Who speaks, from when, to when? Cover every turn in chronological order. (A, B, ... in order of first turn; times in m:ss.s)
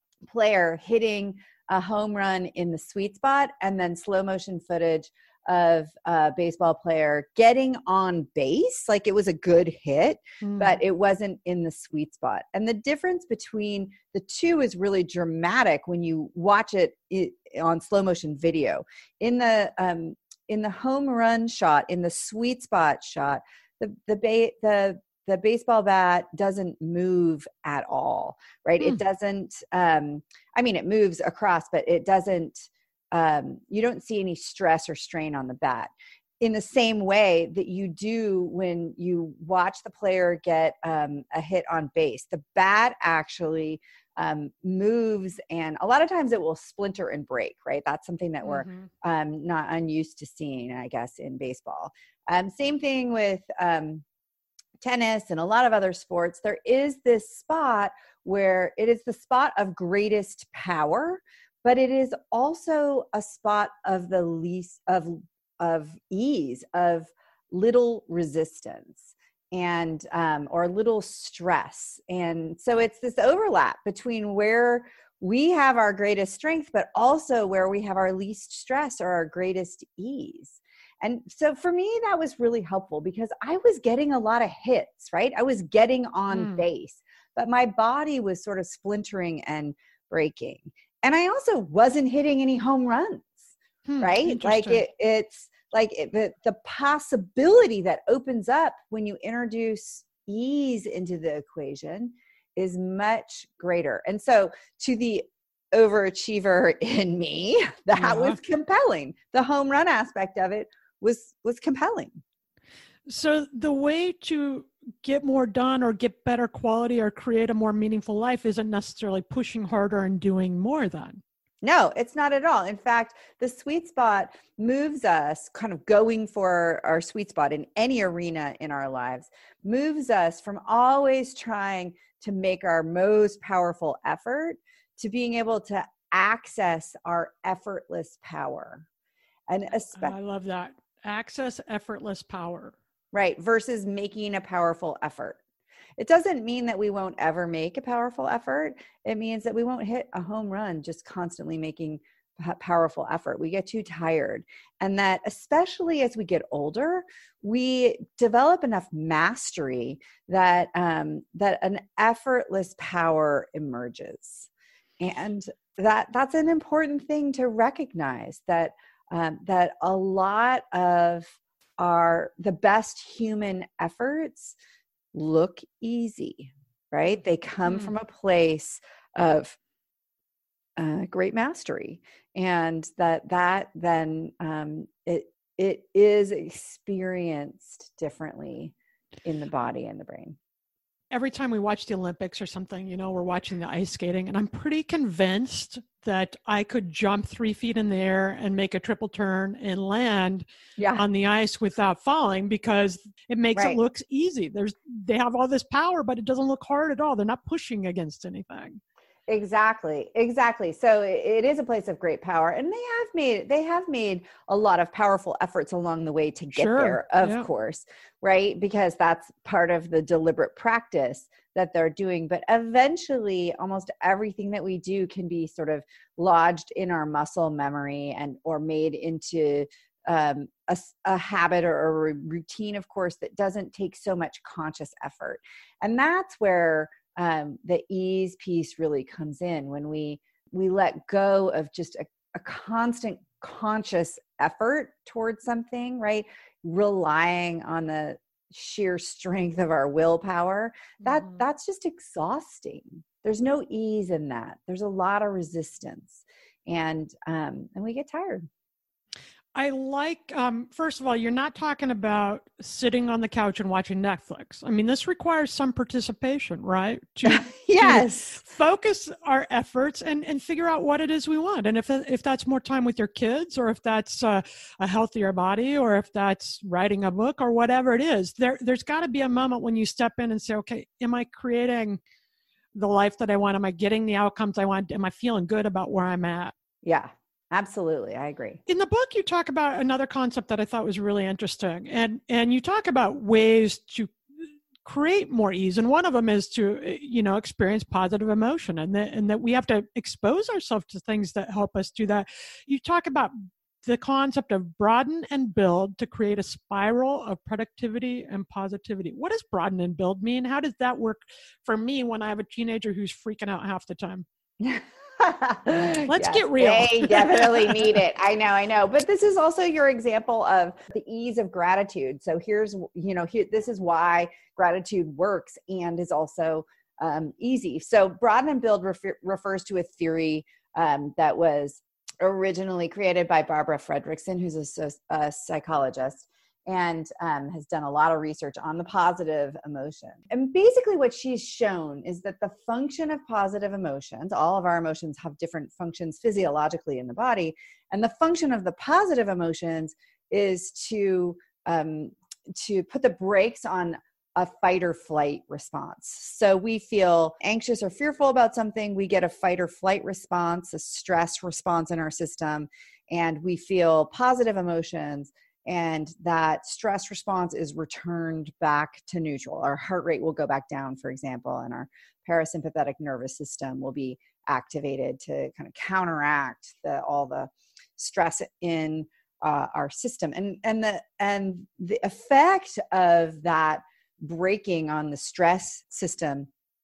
0:00.2-0:54.0 A
0:10.4-0:10.8 B
0:48.4-0:48.9 B
0:54.8-1:52.2 A
1:26.3-1:26.6 B
1:33.8-1:34.8 B
1:48.0-1:48.4 B
1:53.1-2:01.2 B
2:01.6-2:18.8 A
2:19.5-2:20.2 A
2:20.0-2:22.8 B
2:23.1-2:25.4 A
2:26.0-2:44.5 A
2:45.0-2:54.6 A
2:55.1-2:59.6 A
2:57.6-2:57.9 B
3:00.8-3:10.4 A
3:11.1-3:28.8 B
3:20.8-3:21.0 A
3:23.5-3:23.8 A
3:29.3-4:18.5 A
3:36.5-3:37.4 B
4:11.0-4:11.4 B
4:19.5-4:42.0 B
4:27.2-4:28.4 A
4:42.7-4:46.5 B
4:46.8-4:48.6 A
4:48.7-4:54.1 B
4:54.8-5:14.2 B
5:14.6-6:26.5 A
5:16.1-5:17.9 B